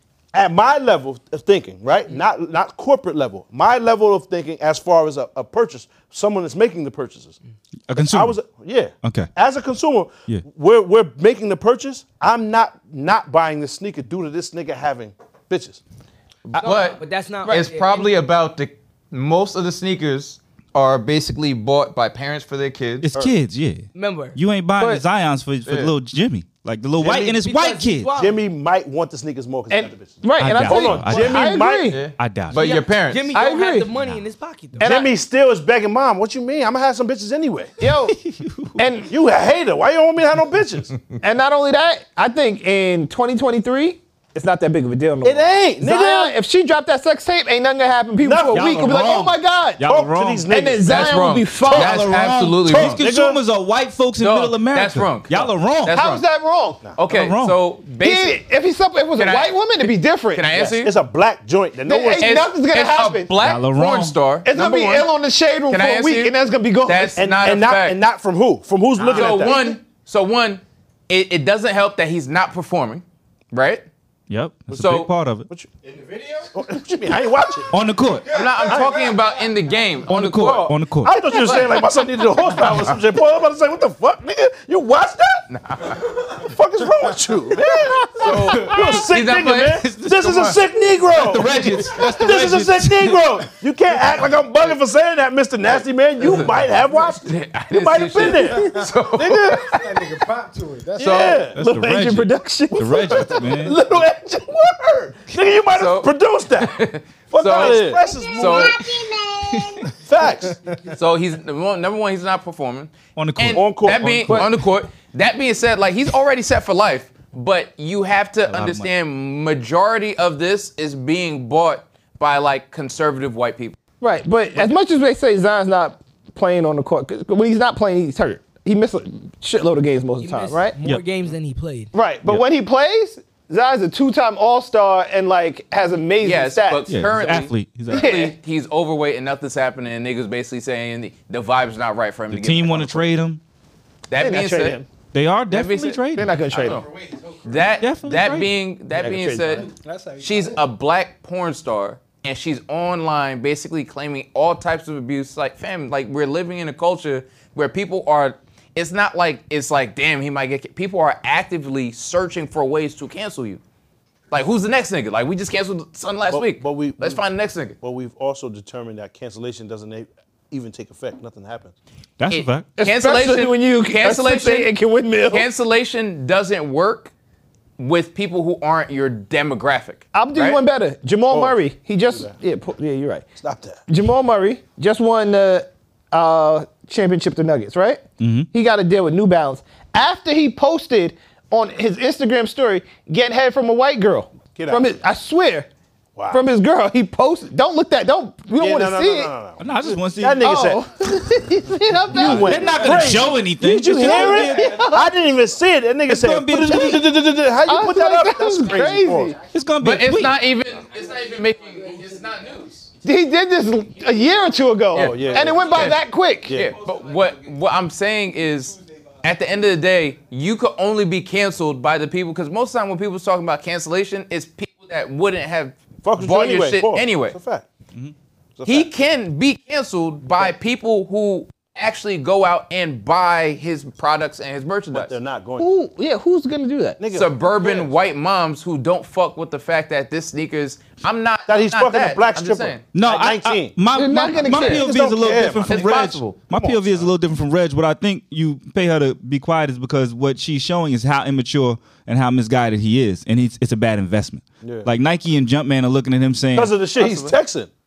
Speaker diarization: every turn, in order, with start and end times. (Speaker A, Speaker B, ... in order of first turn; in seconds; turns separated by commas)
Speaker A: 0.3-7.4, Speaker B: 7.9-8.4, Speaker A: 8.0-15.8, Speaker B: 9.0-9.3, Speaker C: 16.5-23.1, Speaker D: 16.6-18.1, Speaker B: 23.0-28.1, Speaker D: 23.9-24.4, Speaker C: 25.6-25.9, Speaker A: 27.0-27.4, Speaker D: 27.4-28.4, Speaker A: 28.1-32.0, Speaker E: 29.7-32.0, Speaker B: 30.4-31.4, Speaker C: 31.9-33.3, Speaker B: 32.2-32.7, Speaker D: 32.5-34.9, Speaker E: 33.3-33.9, Speaker B: 34.0-34.2, Speaker E: 34.8-35.1, Speaker A: 34.8-37.7, Speaker E: 37.8-38.1, Speaker B: 38.1-38.8, Speaker E: 38.8-39.1, Speaker A: 39.1-40.9, Speaker E: 41.2-49.8, Speaker A: 45.2-46.4, Speaker A: 48.2-49.2, Speaker B: 48.5-50.5, Speaker A: 49.8-51.1, Speaker E: 50.5-52.0, Speaker C: 50.8-53.0, Speaker B: 51.7-56.0, Speaker A: 52.7-53.4, Speaker C: 54.2-56.2, Speaker E: 55.9-56.8, Speaker C: 57.0-58.4, Speaker B: 57.1-57.6, Speaker E: 58.0-60.5, Speaker C: 59.2-60.9, Speaker A: 60.5-62.4, Speaker E: 61.9-63.3, Speaker C: 62.2-65.1, Speaker B: 63.4-64.2, Speaker E: 64.4-67.2, Speaker C: 65.7-68.0, Speaker A: 67.2-69.8, Speaker E: 69.0-69.5, Speaker C: 69.0-73.8, Speaker B: 74.3-75.5, Speaker C: 74.7-75.1, Speaker A: 76.5-77.7, Speaker B: 77.7-78.6, Speaker C: 78.3-80.8, Speaker A: 78.7-79.2, Speaker B: 80.0-81.1, Speaker A: 81.0-85.4, Speaker C: 81.3-81.9, Speaker C: 82.5-83.0, Speaker C: 85.5-86.0, Speaker A: 86.3-99.7, Speaker C: 88.2-90.6, Speaker B: 91.1-93.4, Speaker C: 96.2-96.5, Speaker C: 97.2-100.0, Speaker F: 98.4-98.9, Speaker F: 99.6-101.4, Speaker C: 101.0-101.5, Speaker A: 101.0-101.6, Speaker B: 101.5-103.8, Speaker E: 101.5-103.4, Speaker A: 102.8-108.9, Speaker C: 105.7-108.8, Speaker B: 109.5-109.9, Speaker A: 109.9-110.6, Speaker F: 110.5-110.9, Speaker C: 110.9-123.8, Speaker B: 113.2-114.5, Speaker A: 113.5-114.4, Speaker B: 118.5-118.9, Speaker E: 124.0-130.7, Speaker D: 130.2-131.9, Speaker E: 131.9-136.8, Speaker C: 136.2-143.1, Speaker B: 136.9-138.1, Speaker E: 137.9-138.3, Speaker B: 142.3-143.4, Speaker C: 144.1-144.8, Speaker E: 144.2-144.8, Speaker B: 145.1-146.3, Speaker C: 145.5-146.9, Speaker E: 146.1-146.8, Speaker C: 147.4-149.7, Speaker B: 147.8-148.5, Speaker E: 148.9-149.7, Speaker F: 149.6-150.6, Speaker C: 150.2-163.6, Speaker C: 164.3-167.8, Speaker A: 166.3-167.2, Speaker A: 167.8-171.7, Speaker B: 172.2-172.7, Speaker C: 172.3-174.7, Speaker E: 172.8-175.5, Speaker C: 175.3-177.1, Speaker C: 177.8-180.6, Speaker E: 180.1-183.2, Speaker A: 181.3-181.6, Speaker A: 183.4-183.8, Speaker E: 183.9-195.7, Speaker B: 188.2-188.5, Speaker A: 194.5-194.9, Speaker A: 196.2-196.4, Speaker E: 196.3-199.3, Speaker A: 198.6-200.9, Speaker B: 199.6-200.5, Speaker E: 200.4-203.1, Speaker A: 202.1-209.3, Speaker B: 202.1-204.8, Speaker E: 204.0-205.1, Speaker B: 206.1-207.1, Speaker E: 207.7-209.4, Speaker B: 209.5-210.4, Speaker C: 209.8-212.9, Speaker E: 213.0-216.6, Speaker C: 214.9-227.3, Speaker A: 214.9-216.8, Speaker A: 226.0-227.6, Speaker A: 228.6-228.9, Speaker C: 228.7-235.1, Speaker A: 234.9-235.7, Speaker E: 235.6-237.0, Speaker A: 237.0-237.9, Speaker C: 237.1-242.8, Speaker A: 241.5-243.8, Speaker B: 242.9-256.7, Speaker E: 243.9-244.9, Speaker A: 244.3-247.1, Speaker C: 245.7-246.4, Speaker A: 254.6-254.9, Speaker A: 256.5-257.7, Speaker C: 256.9-257.4